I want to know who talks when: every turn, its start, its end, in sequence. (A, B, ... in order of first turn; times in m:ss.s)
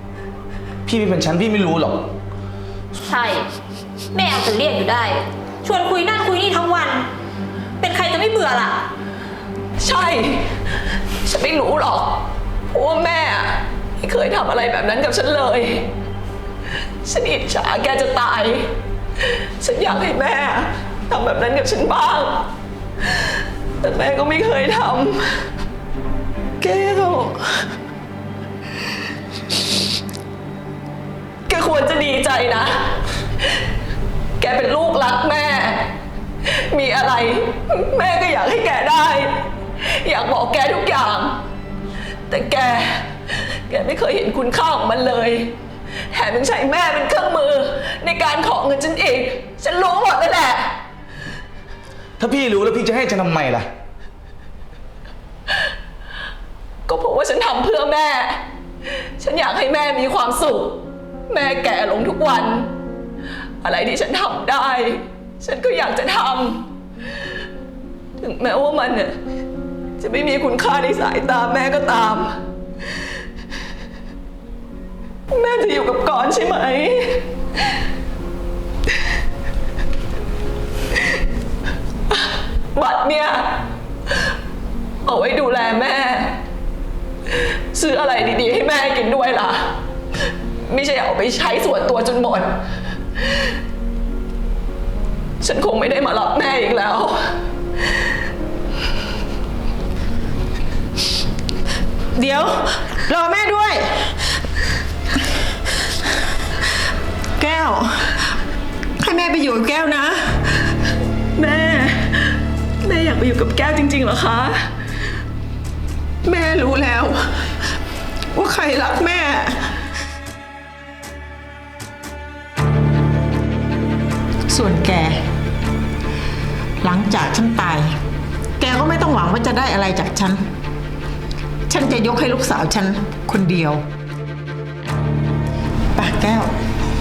0:00.9-0:02.1 A
0:03.0-0:03.5 B
0:04.1-0:07.1 B
0:07.8-0:08.9 B
0:09.8-0:10.5 C
0:11.2-0:15.9 C
0:17.0-0:22.5 C
0:23.0-0:25.5 C
0:26.6-0:27.6 C
0:31.5-0:33.1 C
0:34.4-0:41.4 C
0:42.3-0:45.6 C
0:46.1-0:50.8 C
0:52.2-0:53.7 A
0:56.9-1:02.7 C
1:03.6-1:06.7 C
1:08.2-1:09.2 C
1:10.0-1:12.4 C
1:15.3-1:17.3 C
1:22.1-1:23.7 C
1:25.0-1:26.4 C
1:27.3-1:29.8 C
1:30.4-1:32.6 C
1:33.2-1:33.5 C
1:35.4-1:37.4 C
1:42.2-1:44.2 D
1:47.4-1:48.3 D
1:49.0-1:50.7 D
1:51.4-1:54.8 C
1:56.3-1:56.8 D
1:56.3-1:57.2 C
1:58.3-1:59.7 D
2:04.5-2:05.2 D
2:06.8-2:08.0 D
2:08.6-2:10.4 D
2:11.7-2:13.8 D
2:16.0-2:16.5 D